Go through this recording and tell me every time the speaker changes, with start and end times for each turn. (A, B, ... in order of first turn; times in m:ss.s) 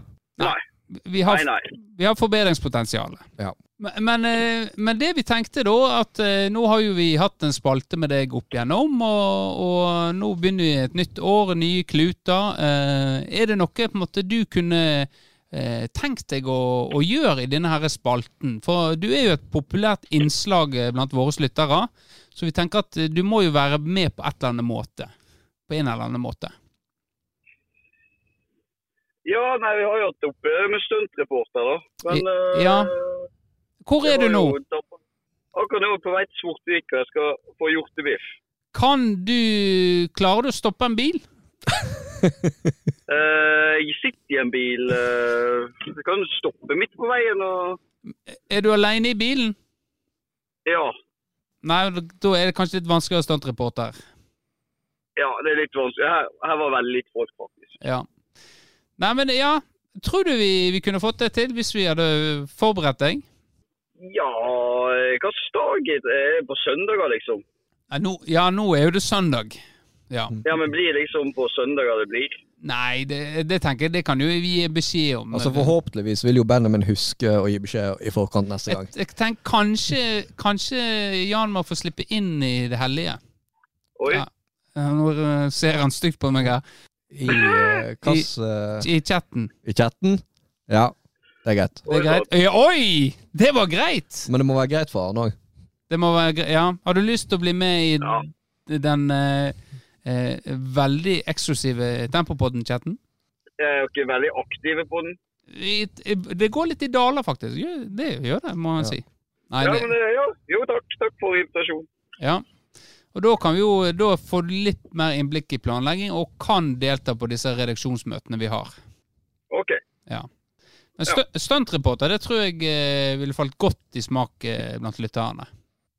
0:00.4-0:03.2 A
0:01.2-0:01.7 B
0:03.8-0:25.1 A
0:25.7-0:26.5 A
0:29.2-0:33.2 B
0:32.1-0:32.9 A
0:33.8-0:34.6 A
0:34.0-0:35.0 B
0:35.5-0:38.2 B
0:38.7-0:41.2 A
0:43.1-0:47.8 B
0:48.3-0:49.6 A
0:50.6-0:50.9 B
0:51.6-0:54.0 A
0:55.2-0:57.7 B
0:57.8-0:58.0 A
0:59.0-1:03.2 A
1:04.0-1:07.4 B
1:07.9-1:09.6 A
1:10.1-1:10.3 A
1:10.4-1:12.4 B
1:12.6-1:15.7 A
1:15.3-1:18.9 C
1:18.7-1:23.2 A
1:24.0-1:24.2 B
1:24.1-1:26.6 A
1:27.1-1:28.9 C
1:28.8-1:29.5 A
1:29.6-1:31.8 C
1:31.8-1:32.3 B
1:31.9-1:34.3 A
1:34.3-1:35.3 C
1:35.9-1:43.0 A
1:43.6-1:45.2 B
1:45.5-1:49.9 A
1:49.6-1:51.8 B
1:52.2-1:52.4 A
1:53.1-1:58.7 A
1:59.5-1:59.8 B
2:01.0-2:05.5 A